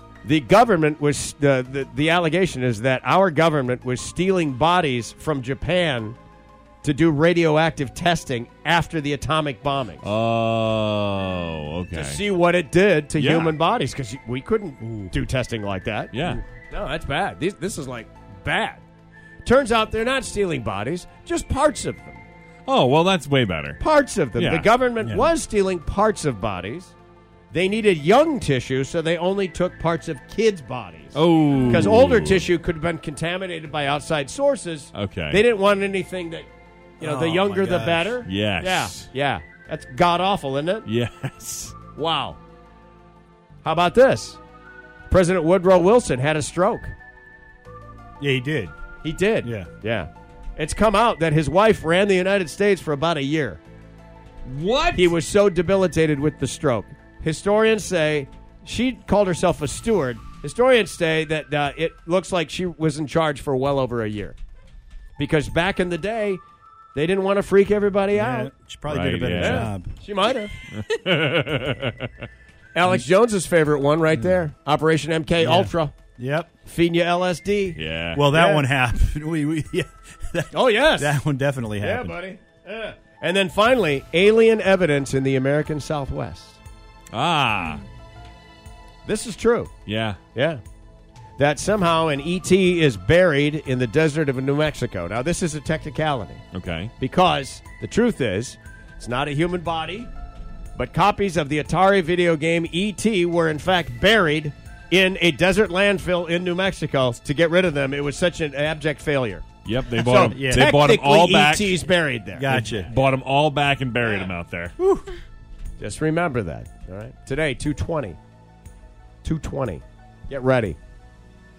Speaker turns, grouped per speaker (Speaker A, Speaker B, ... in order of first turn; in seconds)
Speaker A: 0.2-6.2, 6.8-10.1, 11.9-18.8, 19.4-22.2, 23.8-26.9, 27.5-36.5, 37.0-40.9, 42.0-42.4, 43.6-44.4, 45.1-47.0, 49.0-53.6, 55.0-64.4, 65.2-66.4, 67.0-68.5, 69.4-70.5, 72.7-75.9, 76.7-78.7, 80.5-81.2, 81.8-86.6, 89.0-89.7, 90.3-90.6, 91.4-96.4, 97.0-100.1, 100.8-112.7, 115.8-118.2, 119.2-120.8
Speaker B: 10.0-12.2, 13.2-13.6, 16.1-16.4, 22.7-23.8, 24.4-24.7, 31.1-32.5, 34.9-35.4, 38.2-39.1, 40.9-41.8, 54.5-55.1, 68.9-69.7, 70.7-72.2, 77.8-78.2, 87.1-87.8, 89.9-90.2, 96.5-96.9, 109.7-111.8, 112.7-114.8
Speaker C: 14.8-15.1, 25.0-25.3, 37.0-38.2, 48.2-48.7, 49.4-49.7, 68.1-70.0, 74.2-74.4, 75.4-76.5, 78.1-82.1, 110.2-110.7, 112.4-112.9